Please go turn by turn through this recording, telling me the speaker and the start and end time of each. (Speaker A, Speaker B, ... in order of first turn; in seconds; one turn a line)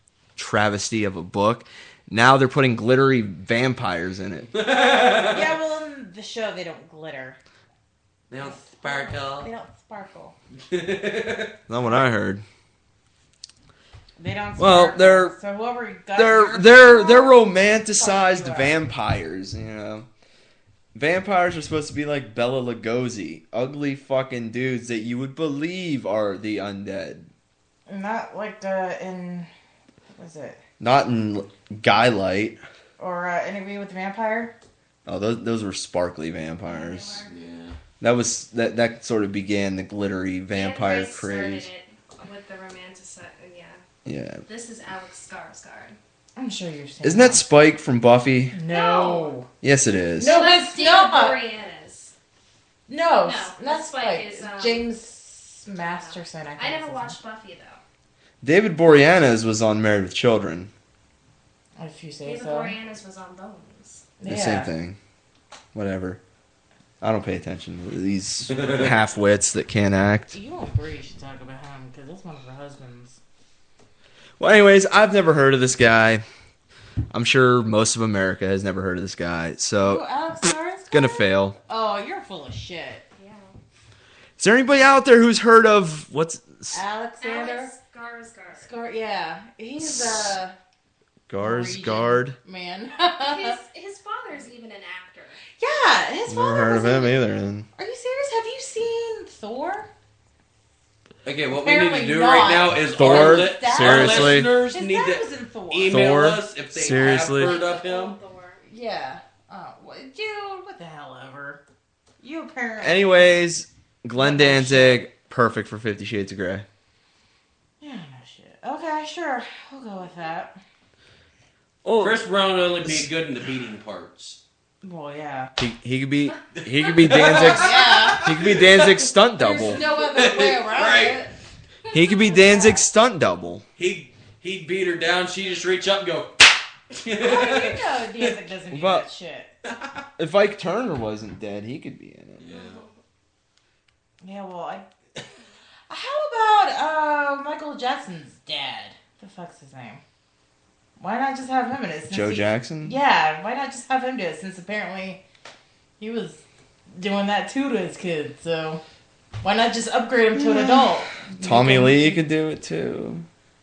Speaker A: 0.4-4.5
Speaker B: 4.5-5.5
Speaker C: 5.2-7.4
Speaker B: 8.3-9.5
Speaker C: 8.4-10.3
Speaker B: 10.7-11.5
Speaker A: 11.7-12.4
Speaker C: 14.2-18.8
Speaker A: 14.6-15.3
Speaker A: 16.1-20.1
Speaker A: 20.9-27.3
Speaker C: 27.9-29.5
Speaker C: 30.1-30.6
Speaker A: 30.8-32.6
Speaker C: 33.0-34.5
Speaker A: 35.1-37.2
Speaker D: 36.7-37.3
Speaker B: 37.3-37.8
Speaker A: 38.0-41.7
Speaker D: 40.5-43.8
Speaker A: 44.0-44.4
Speaker D: 44.5-46.0
Speaker C: 46.4-47.5
Speaker A: 47.0-48.6
Speaker C: 48.5-49.5
Speaker D: 48.7-49.4
Speaker A: 49.6-50.4
Speaker C: 50.2-51.4
Speaker D: 50.2-52.1
Speaker C: 52.9-57.2
Speaker D: 53.2-54.9
Speaker D: 55.9-57.8
Speaker A: 58.4-60.7
Speaker C: 61.8-62.8
Speaker D: 62.2-64.1
Speaker C: 64.2-64.7
Speaker A: 64.2-65.0
Speaker A: 65.7-66.2
Speaker A: 67.0-70.3
Speaker B: 68.5-68.8
Speaker C: 70.3-73.2
Speaker A: 74.4-76.2
Speaker A: 77.1-80.0
Speaker C: 79.8-83.0
Speaker A: 80.9-81.6
Speaker D: 83.2-83.5
Speaker A: 84.4-86.8
Speaker C: 86.7-87.7
Speaker D: 87.2-88.7
Speaker C: 88.6-90.5
Speaker A: 89.8-90.3
Speaker A: 91.3-92.4
Speaker C: 91.4-93.6
Speaker D: 93.2-95.4
Speaker C: 95.5-97.2
Speaker A: 96.3-97.7
Speaker C: 97.8-99.9
Speaker B: 101.2-108.2
Speaker C: 101.5-106.2
Speaker A: 103.0-104.5
Speaker A: 105.9-107.6
Speaker D: 107.0-108.6
Speaker C: 108.6-111.6
Speaker C: 112.2-113.3
Speaker A: 112.8-116.7
Speaker C: 114.2-115.1
Speaker C: 117.8-120.6
Speaker A: 121.8-122.2
Speaker B: 122.0-124.4
Speaker A: 122.8-123.1
Speaker C: 124.8-125.5
Speaker A: 125.6-129.8
Speaker B: 126.5-131.2
Speaker C: 127.2-128.3
Speaker C: 129.4-131.3
Speaker D: 131.9-132.7
Speaker A: 131.9-133.7
Speaker C: 132.4-132.7
Speaker B: 133.8-138.4
Speaker C: 137.2-139.5
Speaker A: 138.7-139.1
Speaker B: 139.7-139.9
Speaker A: 140.2-142.5
Speaker B: 142.4-142.8
Speaker D: 142.5-142.9
Speaker C: 144.2-144.9
Speaker C: 145.9-150.0
Speaker C: 151.0-155.2
Speaker A: 152.1-153.0
Speaker C: 156.0-158.8
Speaker C: 159.4-162.2
Speaker A: 160.4-160.9
Speaker A: 161.4-163.2